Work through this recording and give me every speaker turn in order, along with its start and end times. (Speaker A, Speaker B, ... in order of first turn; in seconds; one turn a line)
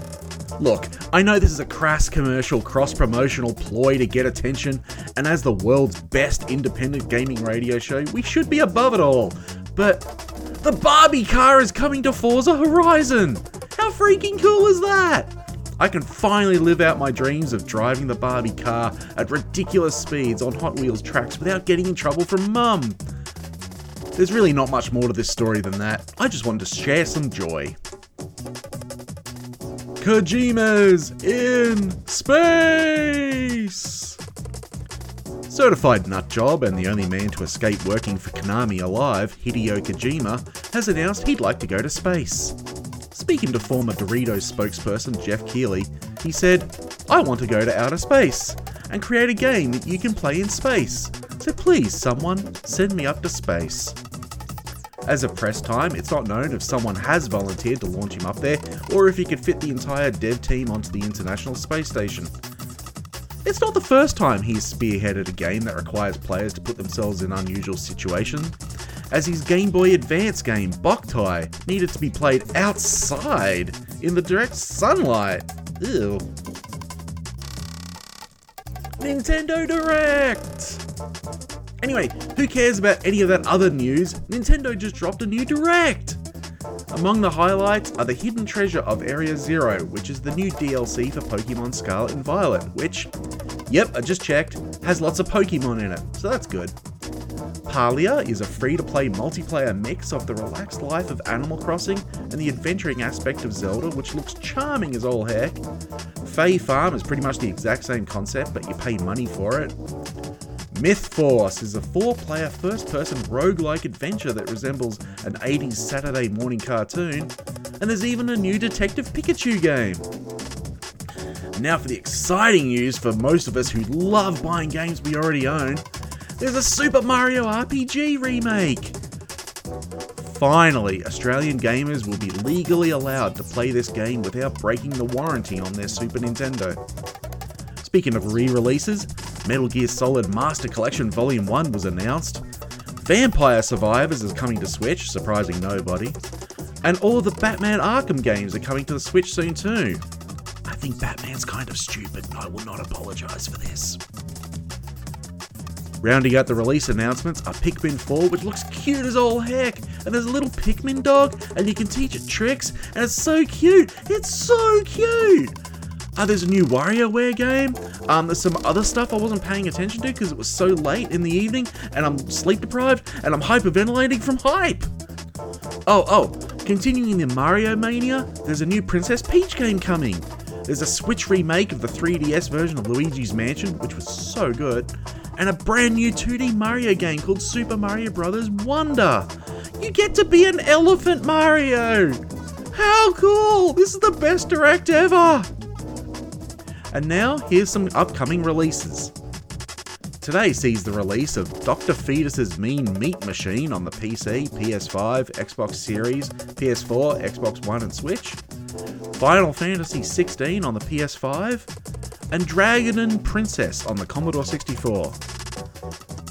Speaker A: 0.6-23.0
Speaker A: 24.2-27.8
Speaker A: 30.0-34.2
Speaker A: 35.5-42.6
Speaker A: 43.1-54.0
Speaker A: 55.0-62.3
Speaker A: 63.4-68.6
Speaker A: 69.1-76.3
Speaker A: 79.0-80.8
Speaker A: 81.8-86.2
Speaker A: 86.9-93.1
Speaker A: 93.7-96.8
Speaker A: 97.7-105.6
Speaker A: 106.2-109.8
Speaker A: 110.7-120.1
Speaker A: 121.5-125.8
Speaker A: 126.4-129.0
Speaker A: 130.2-136.8
Speaker A: 137.8-142.4
Speaker A: 143.0-146.2
Speaker A: 146.8-150.0
Speaker A: 150.7-154.0
Speaker A: 156.0-165.6
Speaker A: 166.2-174.9
Speaker A: 175.9-195.5
Speaker A: 196.9-199.1
Speaker A: 200.2-208.4
Speaker A: 209.1-211.7
Speaker A: 212.3-215.2